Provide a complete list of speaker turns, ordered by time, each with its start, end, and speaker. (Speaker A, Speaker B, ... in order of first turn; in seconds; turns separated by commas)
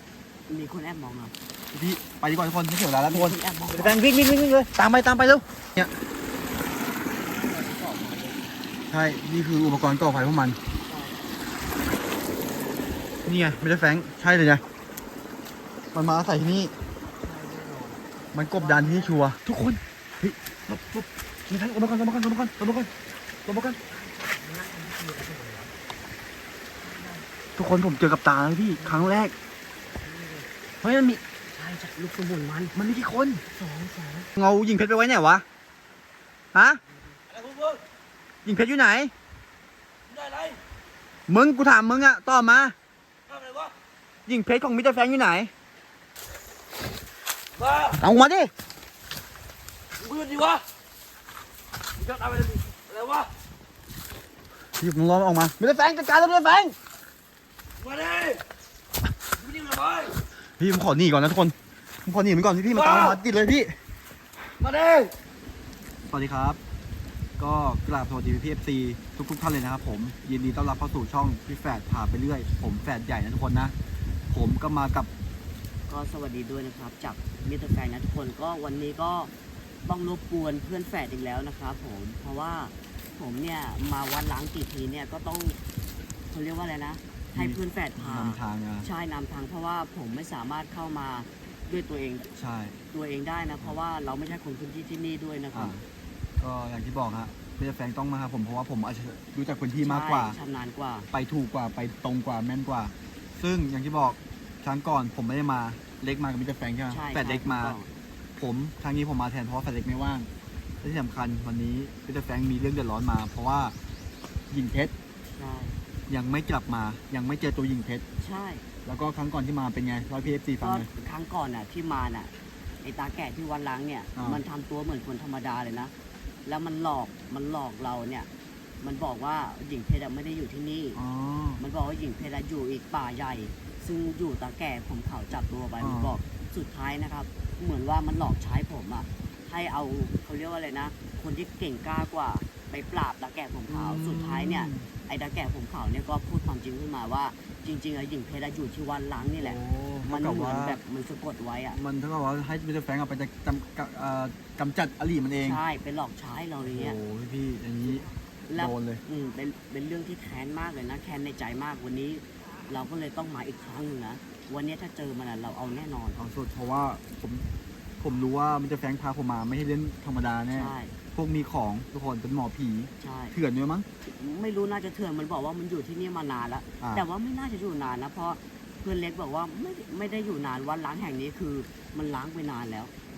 Speaker A: 0.5-1.4, Speaker B: 1.7-5.9, Speaker A: 3.1-4.0, Speaker A: 6.4-8.5, Speaker B: 8.9-10.6, Speaker A: 10.8-11.3, Speaker A: 12.4-13.0, Speaker B: 13.3-14.6, Speaker B: 15.9-16.8, Speaker A: 17.2-19.2, Speaker B: 18.3-22.9, Speaker B: 23.5-23.8, Speaker A: 23.8-25.7, Speaker A: 26.8-27.3, Speaker B: 27.6-29.3, Speaker A: 28.8-29.2, Speaker A: 30.0-30.5, Speaker B: 30.8-31.2, Speaker A: 31.5-32.8, Speaker B: 32.8-33.4, Speaker A: 33.5-34.3, Speaker B: 34.4-35.5, Speaker B: 36.5-36.8, Speaker A: 36.9-37.2, Speaker C: 37.3-37.8, Speaker B: 38.5-39.1, Speaker C: 40.1-40.6, Speaker B: 41.3-42.8, Speaker C: 43.3-43.7, Speaker B: 44.3-45.5, Speaker C: 47.5-48.0, Speaker B: 48.0-48.5, Speaker C: 50.0-50.6, Speaker C: 52.0-53.3, Speaker B: 54.8-56.8, Speaker C: 57.8-58.4, Speaker C: 59.3-60.2, Speaker B: 60.6-63.7, Speaker C: 62.7-63.2, Speaker C: 64.6-65.1, Speaker B: 66.1-66.6, Speaker B: 67.4-73.7, Speaker B: 74.3-75.1, Speaker A: 75.9-79.3, Speaker A: 79.8-85.6, Speaker A: 86.3-92.3, Speaker B: 87.3-88.9, Speaker B: 92.4-92.8, Speaker A: 92.9-95.9, Speaker B: 95.5-95.8, Speaker B: 96.4-100.4, Speaker A: 99.8-101.1, Speaker B: 101.1-107.8, Speaker A: 106.9-107.9, Speaker B: 108.4-110.3, Speaker B: 110.8-113.8, Speaker B: 114.5-114.9, Speaker A: 115.3-115.8, Speaker B: 116.1-118.0, Speaker A: 118.2-118.7, Speaker B: 118.8-120.9, Speaker A: 120.6-122.3, Speaker A: 122.8-125.9, Speaker B: 124.2-124.4, Speaker A: 126.5-128.3, Speaker A: 128.8-131.0, Speaker B: 130.9-131.6, Speaker A: 131.6-151.8, Speaker B: 135.8-136.1, Speaker B: 143.7-144.9, Speaker B: 149.4-150.8, Speaker B: 151.7-155.6, Speaker A: 155.4-157.0, Speaker B: 156.6-159.0, Speaker A: 158.5-166.3, Speaker B: 166.2-167.5, Speaker B: 168.0-173.9, Speaker A: 170.5-170.9, Speaker A: 173.0-173.3, Speaker A: 174.0-182.9, Speaker B: 176.8-177.1